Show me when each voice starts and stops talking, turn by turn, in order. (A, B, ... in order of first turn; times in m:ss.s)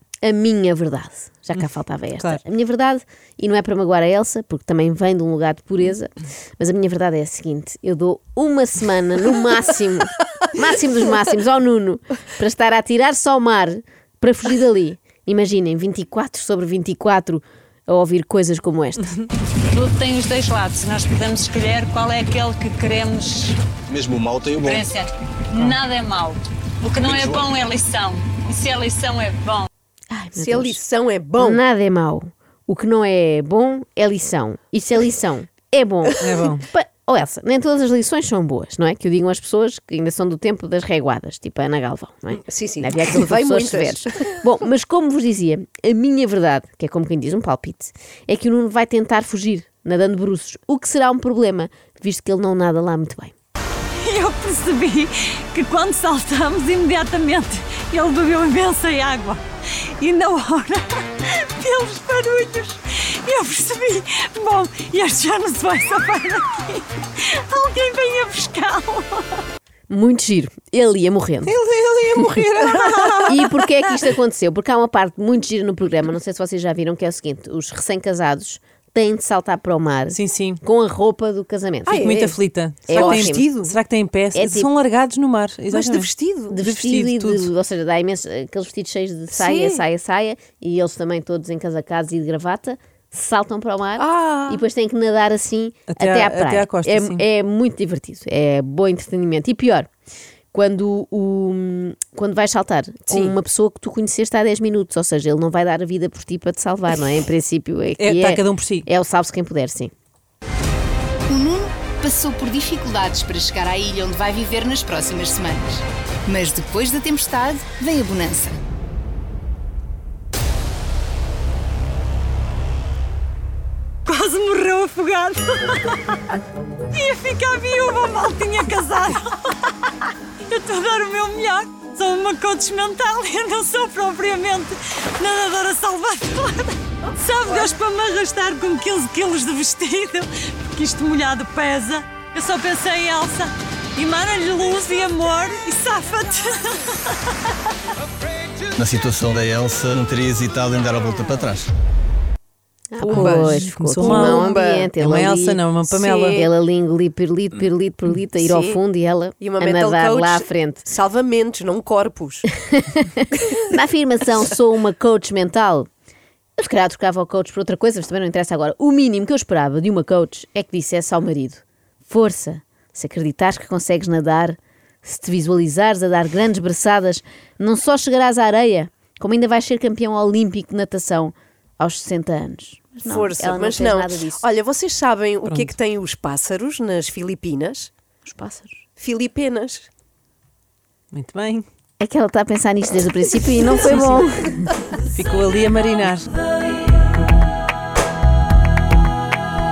0:00.2-0:19.2 A
0:02.2-0:02.4 B
0:19.7-0:23.6 C
0:23.9-0:24.9 D
0:24.6-0:29.7 C
0:27.0-0:27.4 D
0:30.1-0:30.8 A
0:30.4-0:31.6 E
0:31.4-0:53.3 A
0:36.2-0:36.7 B
0:42.4-0:44.4 E
0:54.0-0:59.4 C
1:00.0-1:09.3 C
1:09.9-1:11.5 A
1:11.5-1:13.4 B
1:11.9-1:12.9 E
1:13.3-1:22.1 A
1:20.1-1:20.6 B
1:21.9-1:22.4 E
1:21.9-1:27.5 B
1:22.9-1:23.4 A
1:22.9-1:23.8 E
1:24.4-1:24.7 A
1:25.7-1:26.6 E
1:26.5-1:39.9 A
1:29.3-1:29.8 E
1:34.0-1:34.6 E
1:35.9-1:37.2 B
1:40.5-1:49.9 A
1:43.1-1:43.3 E
1:48.0-1:48.9 B
1:51.3-1:58.6 F
2:04.1-2:06.2 C
2:06.9-2:09.9 C
2:10.5-2:27.2 C
2:28.8-2:31.7 D
2:32.9-2:35.0 E
2:33.0-2:35.7 A
2:33.0-2:36.4 B
2:35.9-2:36.5 E
2:36.3-2:40.9 A
2:38.4-2:38.8 E
2:39.4-2:42.5 E
2:42.7-2:45.9 A
2:46.6-3:04.4 A
3:03.0-3:07.9 E
3:05.4-3:05.7 B
3:08.3-3:08.8 A
3:09.0-3:09.9 E
3:11.1-3:11.7 B
3:12.0-3:14.7 A
3:15.2-3:16.3 B